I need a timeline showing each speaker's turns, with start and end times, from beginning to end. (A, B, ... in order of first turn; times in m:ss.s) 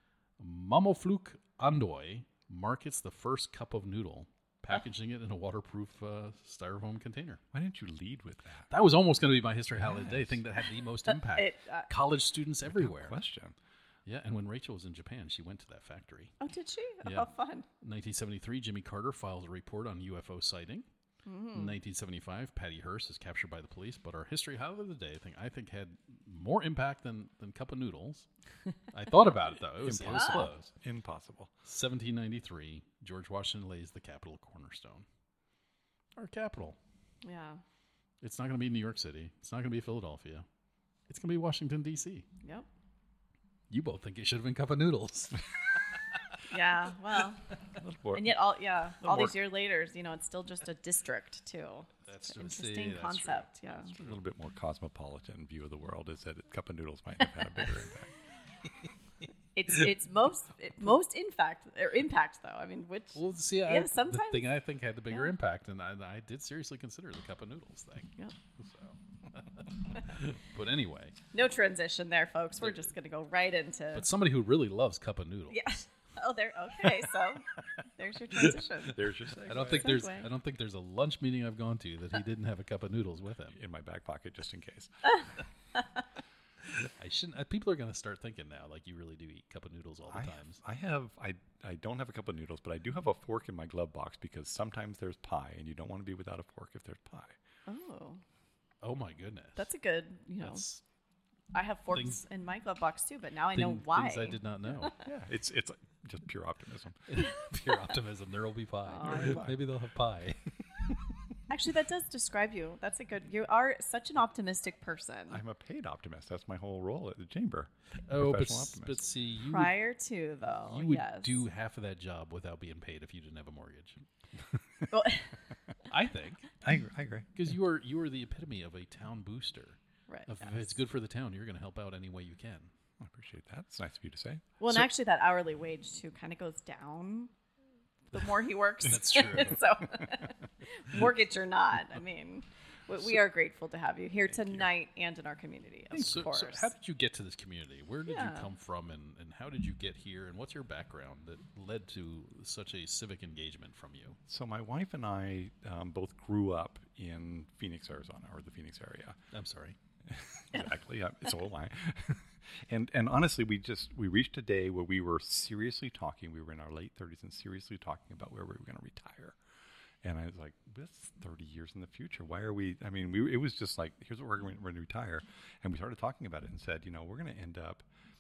0:00.4-0:07.4 A
0:07.5-0:08.7 B
0:08.7-0:13.2 A
0:09.8-0:10.4 B
0:11.3-0:11.9 C
0:12.7-0:13.6 B
0:14.1-0:16.4 A
0:16.4-0:17.7 C
0:17.0-0:20.9 A
0:21.3-0:21.8 C
0:21.5-0:28.3 A
0:28.9-0:30.7 A
0:29.8-0:31.5 B
0:30.0-0:30.4 C
0:31.6-0:35.0 A
0:36.2-0:36.8 A
0:37.2-0:37.6 C
0:38.2-0:40.5 A
0:41.1-0:42.3 A
0:43.7-0:45.4 A
0:46.5-0:47.4 C
0:47.8-0:48.4 B
0:48.1-0:53.9 C
0:49.0-0:49.4 B
0:52.1-0:54.2 A
0:54.0-0:58.1 B
0:59.6-1:04.5 C
1:03.2-1:11.2 A
1:11.3-1:14.1 C
1:12.6-1:12.9 A
1:13.9-1:15.7 A
1:15.5-1:19.0 C
1:18.9-1:20.1 B
1:19.4-1:23.6 A
1:19.6-1:20.3 C
1:23.5-1:25.2 B
1:26.8-1:30.6 A
1:30.1-1:37.4 B
1:37.7-1:38.2 C
1:38.8-1:39.7 A
1:39.6-1:40.6 C
1:40.4-1:40.8 A
1:41.5-1:44.9 C
1:41.9-1:42.2 A
1:43.5-1:45.0 A
1:45.0-1:47.2 B
1:47.1-1:50.4 A
1:48.9-1:49.4 C
1:49.0-1:49.6 B
1:51.5-1:55.4 C
1:55.3-1:59.0 B
1:58.1-1:59.8 A
1:59.4-2:01.4 C
2:00.7-2:04.0 A
2:04.9-2:05.3 C
2:05.9-2:06.5 A
2:06.6-2:07.3 B
2:07.4-2:12.7 A
2:10.1-2:10.6 C
2:13.0-2:14.5 B
2:14.6-2:17.3 C
2:18.1-2:26.7 C
2:18.8-2:19.8 A
2:25.9-2:34.2 A
2:28.1-2:28.5 C
2:34.3-2:39.2 B
2:39.3-2:39.8 A
2:40.1-2:49.4 B
2:50.0-2:57.9 B